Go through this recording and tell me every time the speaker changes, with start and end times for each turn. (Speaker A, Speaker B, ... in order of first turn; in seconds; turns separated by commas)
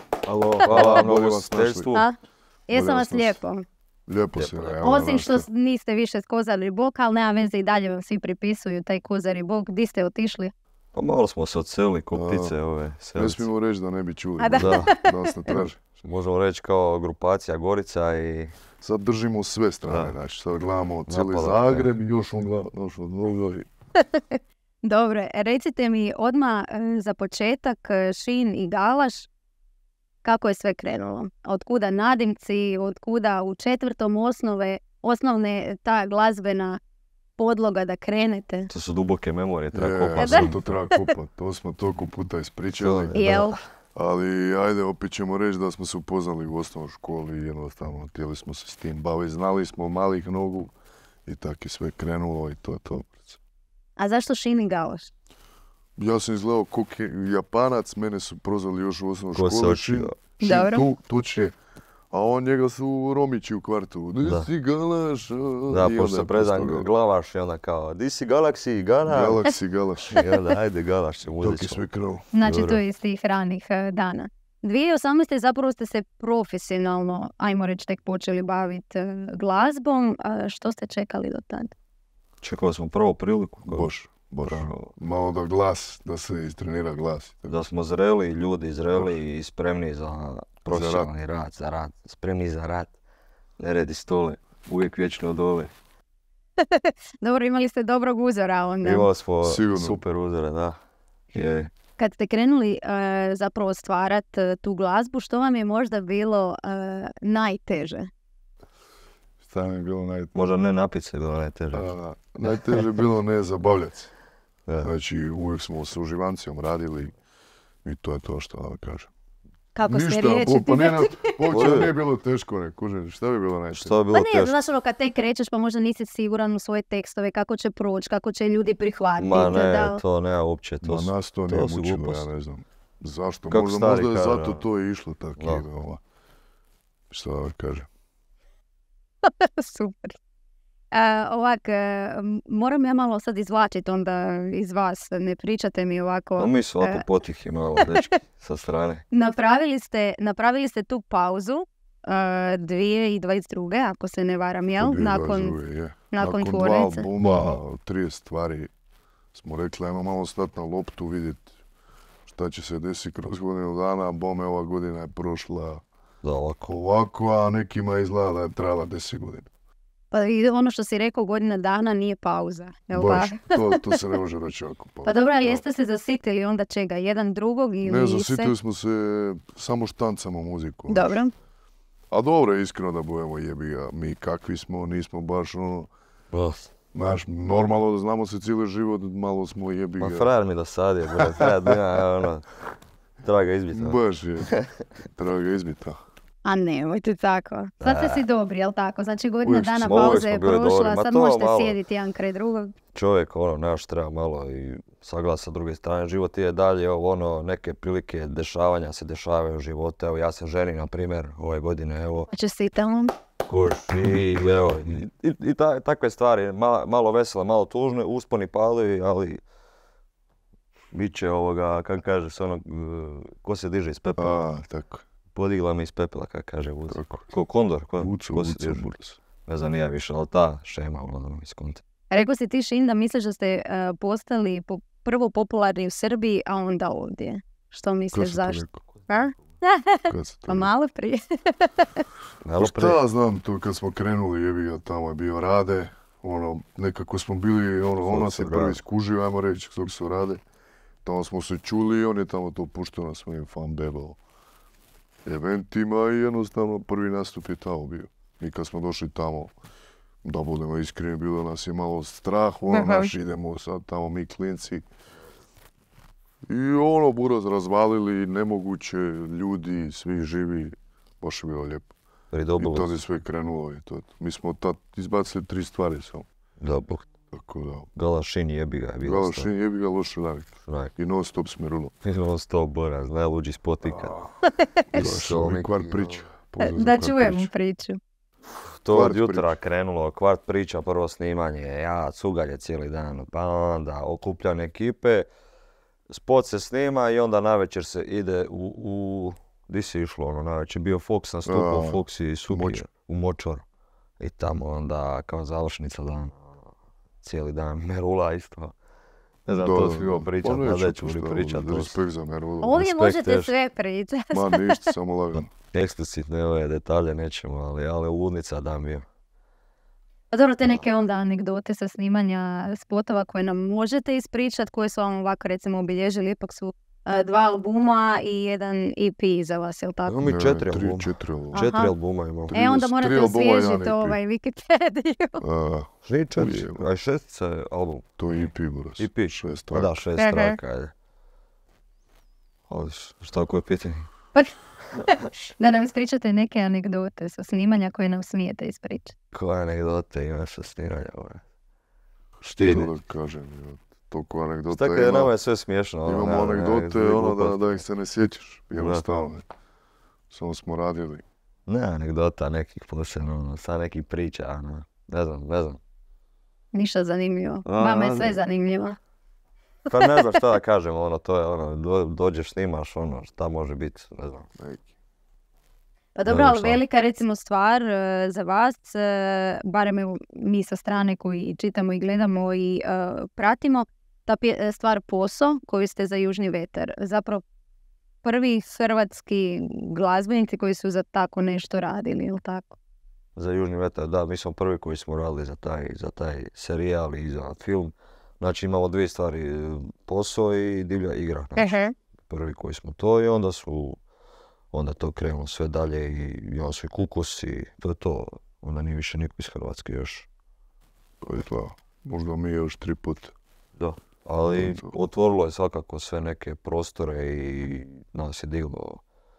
Speaker A: 0.3-2.1, Speaker B: 0.6-1.9, Speaker C: 2.7-3.6, Speaker B: 2.7-3.4, Speaker B: 4.1-5.5, Speaker A: 4.3-4.8, Speaker C: 4.8-10.5, Speaker A: 10.9-13.5, Speaker B: 12.1-12.5, Speaker B: 13.1-15.8, Speaker C: 14.4-15.5, Speaker A: 14.6-14.9, Speaker A: 15.5-18.6, Speaker B: 18.8-23.7, Speaker A: 19.9-20.1, Speaker A: 21.1-21.9, Speaker C: 24.1-29.3, Speaker C: 30.2-36.8, Speaker C: 37.4-38.7, Speaker A: 38.7-40.6, Speaker B: 39.7-43.1, Speaker C: 40.2-41.0, Speaker A: 42.8-43.6, Speaker C: 43.1-43.5, Speaker B: 43.9-50.7, Speaker B: 51.2-53.4, Speaker C: 54.0-55.1, Speaker B: 56.0-61.5, Speaker A: 59.3-60.1, Speaker C: 60.4-60.9, Speaker B: 62.1-66.9, Speaker A: 64.2-64.5, Speaker A: 65.7-69.4, Speaker B: 69.0-70.2, Speaker A: 70.1-71.8, Speaker B: 71.4-72.2, Speaker C: 72.3-81.7, Speaker A: 72.4-72.8, Speaker A: 82.4-83.9, Speaker B: 83.7-87.5, Speaker A: 84.4-84.9, Speaker A: 87.5-92.9, Speaker B: 90.7-91.1, Speaker A: 93.6-95.7, Speaker C: 96.6-99.1, Speaker A: 98.8-100.8, Speaker B: 99.4-100.0, Speaker A: 101.3-101.7, Speaker C: 102.0-108.1, Speaker B: 109.4-110.3, Speaker A: 110.3-111.9, Speaker B: 111.7-114.1, Speaker A: 112.4-112.9, Speaker A: 114.7-114.9, Speaker B: 114.8-117.1, Speaker B: 117.8-119.1, Speaker C: 119.7-121.5, Speaker B: 119.9-124.0, Speaker A: 121.5-122.0, Speaker A: 123.7-124.6, Speaker C: 124.1-130.0, Speaker A: 129.2-132.2, Speaker B: 130.8-136.0, Speaker A: 133.5-134.6, Speaker A: 135.4-135.6, Speaker B: 137.1-137.9, Speaker C: 139.2-140.2, Speaker C: 140.9-147.0, Speaker A: 146.4-149.0, Speaker C: 149.1-155.6, Speaker B: 154.8-158.7, Speaker C: 156.1-157.1, Speaker B: 159.3-161.5, Speaker B: 162.2-165.8, Speaker A: 166.2-166.8, Speaker B: 166.7-169.5, Speaker C: 170.1-174.0, Speaker B: 172.9-175.6, Speaker C: 175.1-178.5, Speaker B: 177.8-181.2, Speaker C: 180.9-181.3, Speaker B: 182.1-185.9, Speaker A: 186.3-186.7, Speaker B: 186.9-190.3, Speaker A: 190.0-192.5, Speaker B: 191.2-192.0, Speaker A: 193.2-194.7, Speaker B: 193.7-194.5, Speaker B: 195.1-196.0, Speaker C: 196.4-202.7, Speaker A: 197.8-198.2, Speaker A: 199.4-201.8, Speaker A: 202.9-212.3, Speaker C: 212.3-213.1, Speaker A: 213.4-219.4, Speaker A: 220.9-224.3, Speaker B: 224.2-225.0, Speaker A: 225.3-231.8, Speaker B: 226.9-227.3, Speaker B: 228.0-229.0, Speaker C: 232.1-242.0, Speaker B: 238.1-238.8, Speaker B: 240.1-240.7, Speaker A: 242.4-243.0, Speaker B: 242.6-250.4, Speaker A: 248.1-248.8, Speaker B: 251.0-254.2, Speaker B: 255.2-259.5, Speaker B: 260.2-264.9, Speaker C: 262.7-263.1, Speaker B: 266.5-271.9, Speaker A: 272.3-272.9, Speaker B: 272.6-276.3, Speaker A: 276.6-277.1, Speaker B: 277.3-277.9, Speaker A: 277.9-279.5, Speaker B: 279.0-281.9, Speaker A: 280.6-280.9, Speaker A: 282.0-284.2, Speaker B: 283.9-284.1, Speaker A: 284.9-286.1, Speaker B: 284.9-287.5, Speaker C: 286.6-288.0, Speaker A: 288.6-295.3, Speaker B: 288.9-289.6, Speaker A: 296.1-303.6, Speaker B: 301.4-302.8, Speaker A: 304.2-306.3, Speaker A: 307.2-308.7, Speaker A: 309.4-311.9, Speaker B: 309.6-312.8, Speaker C: 312.6-314.8, Speaker A: 312.7-313.5, Speaker B: 314.3-315.5, Speaker A: 315.5-319.0, Speaker C: 320.3-330.2, Speaker A: 330.1-332.5, Speaker B: 330.2-331.7, Speaker C: 331.5-331.9, Speaker B: 332.5-334.2, Speaker C: 332.5-335.4, Speaker B: 335.4-336.8, Speaker A: 336.1-338.1, Speaker B: 338.2-339.9, Speaker A: 339.0-340.9, Speaker C: 340.2-340.6, Speaker A: 342.7-344.1, Speaker C: 345.1-349.1, Speaker A: 349.3-351.4, Speaker A: 352.4-352.9, Speaker B: 352.4-355.3, Speaker A: 354.7-357.8, Speaker B: 356.1-359.4, Speaker A: 358.8-359.0, Speaker B: 360.3-361.2, Speaker A: 361.7-365.8, Speaker C: 366.7-369.0, Speaker A: 367.6-368.4, Speaker A: 369.9-374.5, Speaker B: 374.6-374.9, Speaker C: 376.1-387.4, Speaker A: 376.2-376.8, Speaker C: 388.2-392.8, Speaker A: 393.4-401.8, Speaker C: 401.6-401.9, Speaker A: 402.3-404.0, Speaker A: 404.7-410.3, Speaker B: 411.2-413.3, Speaker A: 413.8-419.0, Speaker B: 414.5-415.0